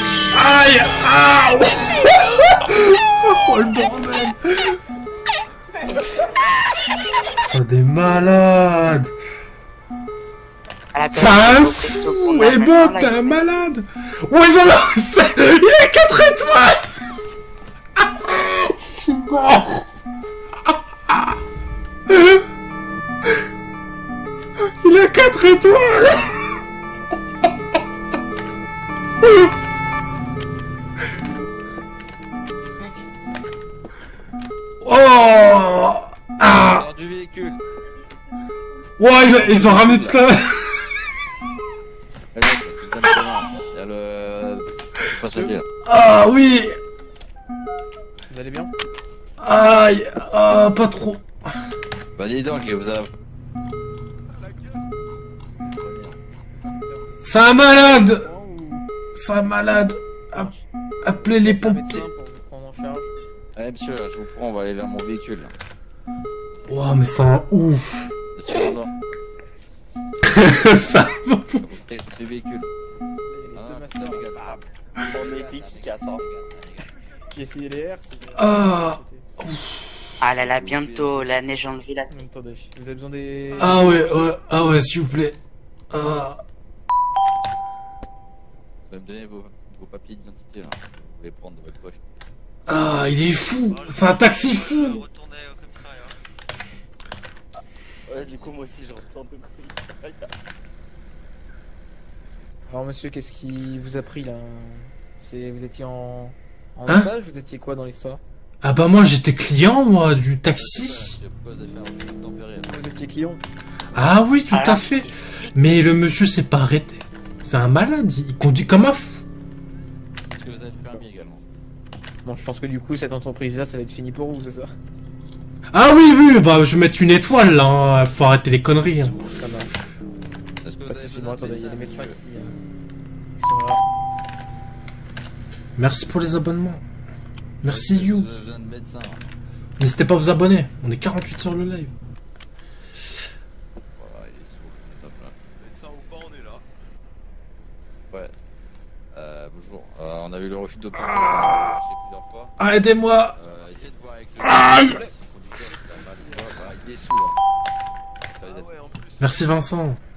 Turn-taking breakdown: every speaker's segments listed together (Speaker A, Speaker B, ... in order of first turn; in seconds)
Speaker A: 0.3-4.8, 7.4-9.1, 11.1-17.1, 18.0-19.9, 21.1-21.3, 22.1-22.4, 24.8-26.5, 34.8-36.9, 39.0-40.9, 45.8-46.8, 49.4-51.4, 57.2-58.3, 59.1-60.5, 61.0-62.0, 66.7-68.1, 70.2-71.6, 78.3-79.7, 83.6-85.4, 85.9-86.4, 92.7-95.0, 108.6-111.2, 113.9-119.2, 125.7-129.2, 135.8-136.8, 137.6-138.3, 139.8-141.9, 150.9-151.8, 152.6-153.3, 154.4-154.9, 159.2-160.0
Speaker B: 10.9-13.4, 32.8-33.0, 80.2-82.2, 114.5-115.7
Speaker C: 36.5-37.6, 39.2-40.2, 42.3-45.6, 52.1-53.1, 55.7-56.2, 63.5-65.5, 68.3-68.9, 71.6-72.7, 73.5-76.9, 80.3-81.5, 88.9-92.0, 110.5-112.8, 120.3-121.4, 128.9-129.4, 130.6-132.2, 137.6-139.2, 143.9-145.4, 148.1-148.3, 149.1-152.5, 153.4-157.4, 158.4-158.7
Speaker D: 48.3-48.7, 56.6-57.1, 57.7-58.9, 60.3-63.1, 73.3-74.3, 77.3-79.2, 82.1-84.3, 102.7-108.2, 112.6-113.4, 122.2-124.7, 129.2-129.7, 130.9-132.6, 133.3-133.8
Speaker E: 54.3-54.9, 145.6-146.6, 155.9-156.3, 158.4-159.6
Speaker F: 75.1-76.2, 98.1-100.3